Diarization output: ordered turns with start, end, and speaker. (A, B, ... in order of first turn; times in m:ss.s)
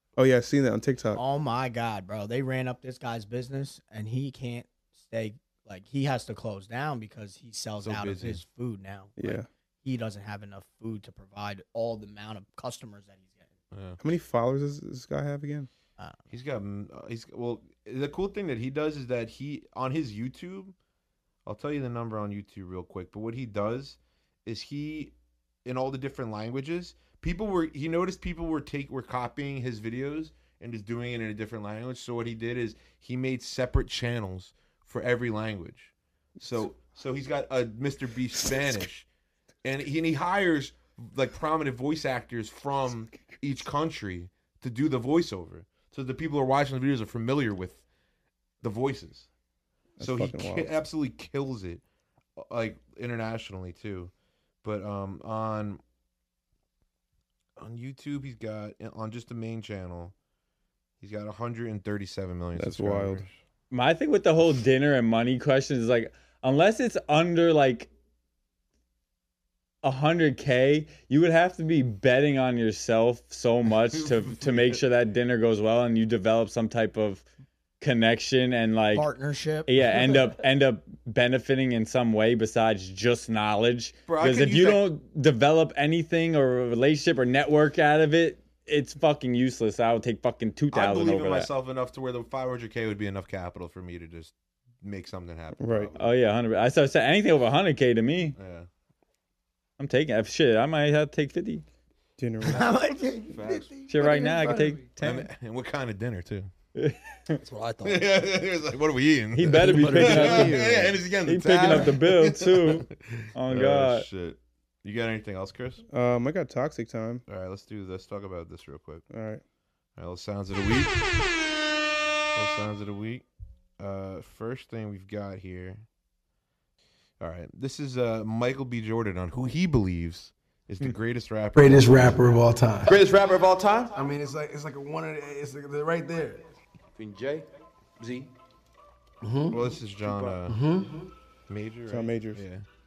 0:00.2-0:01.2 A
0:01.1-0:13.4 B
0:07.8-0:08.4 C
0:09.2-0:09.5 A
0:13.7-0:14.0 C
0:14.0-0:15.7 A
0:16.3-0:20.7 C
0:21.4-0:25.1 C
0:25.6-0:39.1 C
0:39.6-0:47.8 C
0:48.6-0:49.3 C
0:50.0-0:50.8 A
0:50.0-0:51.8 C
0:52.4-0:54.1 C
0:54.6-0:55.8 C
0:57.6-1:00.1 C
1:01.0-1:03.4 C
1:02.5-1:03.2 A
1:03.7-1:07.9 D
1:09.8-1:17.2 D
1:13.9-1:14.8 C
1:17.8-1:19.1 D
1:18.9-1:19.7 B
1:19.7-1:31.5 D
1:24.1-1:24.8 C
1:30.7-1:36.1 C
1:35.6-1:35.9 A
1:36.0-1:38.4 D
1:38.4-1:38.7 C
1:39.8-1:41.6 D
1:42.2-1:42.7 A
1:42.4-1:44.7 B
1:43.3-1:46.5 C
1:43.9-1:45.3 D
1:46.7-1:47.4 D
1:47.4-1:48.1 E
1:47.8-1:55.8 C
1:49.3-1:54.1 D
1:49.6-1:50.9 E
1:49.9-1:50.3 B
1:55.9-1:57.2 A
1:57.3-1:59.0 C
1:59.1-1:59.4 A
2:00.0-2:01.0 C
2:02.3-2:03.2 C
2:03.8-2:05.8 C
2:07.2-2:12.2 C
2:11.5-2:13.0 F
2:12.8-2:14.0 G
2:13.9-2:16.4 F
2:17.0-2:17.4 G
2:18.0-2:18.3 G
2:19.2-2:19.8 F
2:19.5-2:20.6 C
2:20.0-2:20.5 G
2:20.5-2:21.1 F
2:21.5-2:22.6 C
2:21.9-2:22.4 A